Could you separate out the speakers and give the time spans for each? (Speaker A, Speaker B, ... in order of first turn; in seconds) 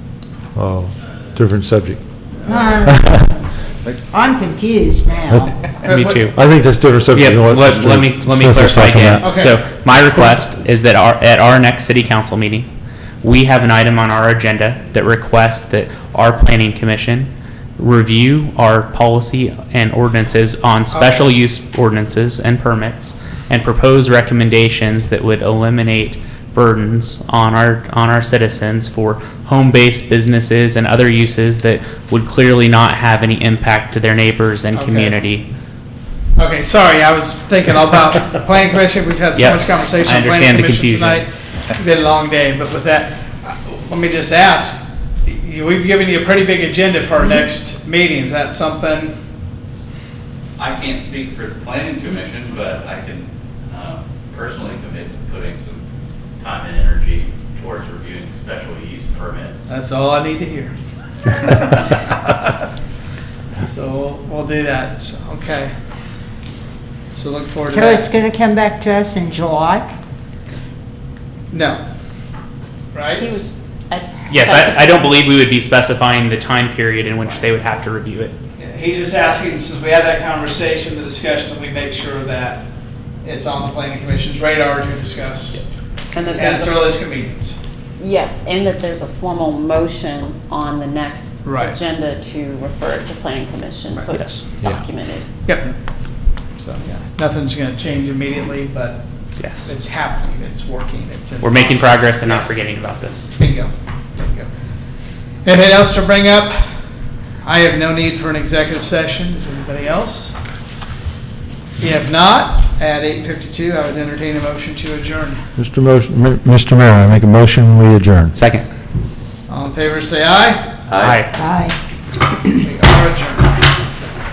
Speaker A: 0.6-2.0, 6.3-9.4, 115.6-118.4
Speaker B: 2.4-3.5, 4.0-5.6, 67.7-69.9, 121.4-121.8
Speaker C: 5.8-6.3, 9.2-9.5, 20.9-21.2, 34.7-35.2, 36.4-49.2, 59.7-60.7, 63.7-65.7, 67.1-68.1, 71.5-71.8, 72.9-73.3, 78.6-82.7, 83.2-85.6, 86.2-87.6, 91.4-91.8, 93.9-94.4, 95.5-95.8, 96.6-102.7, 103.4-104.5, 105.4-106.7, 107.4-110.4, 111.8-115.5, 119.5-120.7, 122.6-123.5
Speaker D: 5.8-6.4, 7.1-12.7, 13.2-35.4, 39.4-41.2, 74.3-78.3, 94.1-94.5, 99.4-99.7, 101.4-103.3, 118.3-118.7, 121.0-121.3
Speaker E: 50.6-55.8, 56.4-59.6, 120.9-121.2
Speaker F: 73.2-75.0, 86.1-86.8, 88.0-95.3